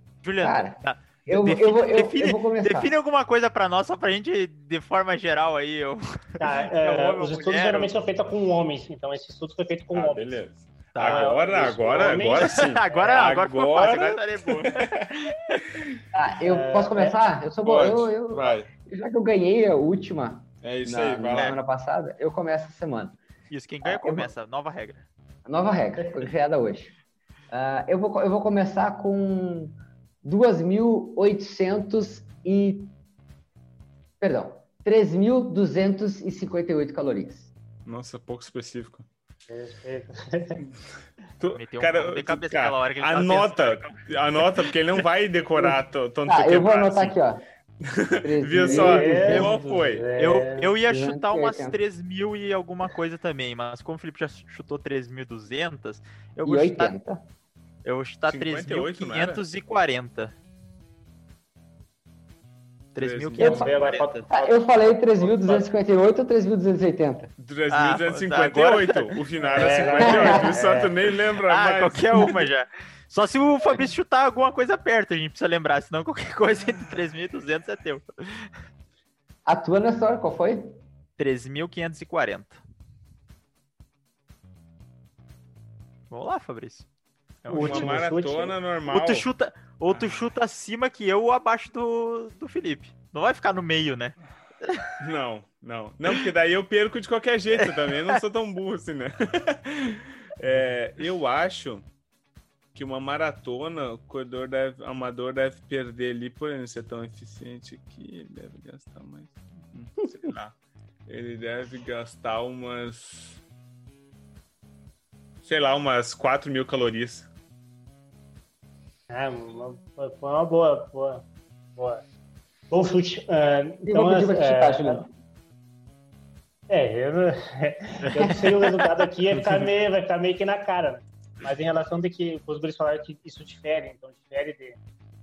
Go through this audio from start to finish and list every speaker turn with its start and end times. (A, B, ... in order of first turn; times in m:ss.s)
0:00.2-0:08.0 A
0:00.4-0:02.9 B
0:06.4-0:10.4 C
0:09.9-0:15.1 D
0:10.9-0:11.3 A
0:11.0-0:13.3 C
0:12.2-0:15.6 A
0:15.7-0:16.0 D
0:16.1-0:23.2 B
0:16.4-0:17.2 C
0:17.6-0:18.7 D
0:20.6-0:21.6 D
0:21.3-0:21.6 A
0:23.5-0:25.1 A
0:23.8-0:24.3 B
0:25.4-0:26.9 B
0:27.5-0:32.9 B
0:34.2-0:37.5 B
0:37.8-0:39.0 D
0:39.5-0:40.6 C
0:41.4-0:47.2 D
0:41.5-0:44.0 A
0:45.6-0:47.4 B
0:47.8-0:50.0 D
0:48.2-0:49.5 B
0:48.6-0:50.7 C
0:50.2-0:57.0 A
0:50.9-0:51.8 B
0:56.4-0:57.2 B
0:57.8-1:00.3 A
0:58.3-0:59.4 D
1:02.9-1:04.3 A
1:03.0-1:03.7 D
1:03.4-1:05.6 C
1:03.4-1:03.7 B
1:04.3-1:07.3 B
1:07.4-1:12.4 D
1:07.7-1:09.1 A
1:09.4-1:10.9 C
1:09.8-1:10.4 A
1:10.1-1:10.5 B
1:11.4-1:18.5 A
1:19.4-1:20.8 B
1:21.2-1:22.6 A
1:26.1-1:26.9 A
1:27.4-1:28.0 A
1:27.5-1:29.3 D
1:27.5-1:28.6 C
1:28.9-1:34.9 A
1:29.9-1:30.3 D
1:35.0-1:41.9 D
1:37.6-1:38.2 A
1:42.7-1:53.4 D
1:55.4-1:57.3 D
1:59.1-2:01.2 C
2:01.8-2:02.0 C
2:02.7-2:05.0 C
2:03.8-2:05.1 B
2:06.7-2:14.8 C
2:08.1-2:09.7 A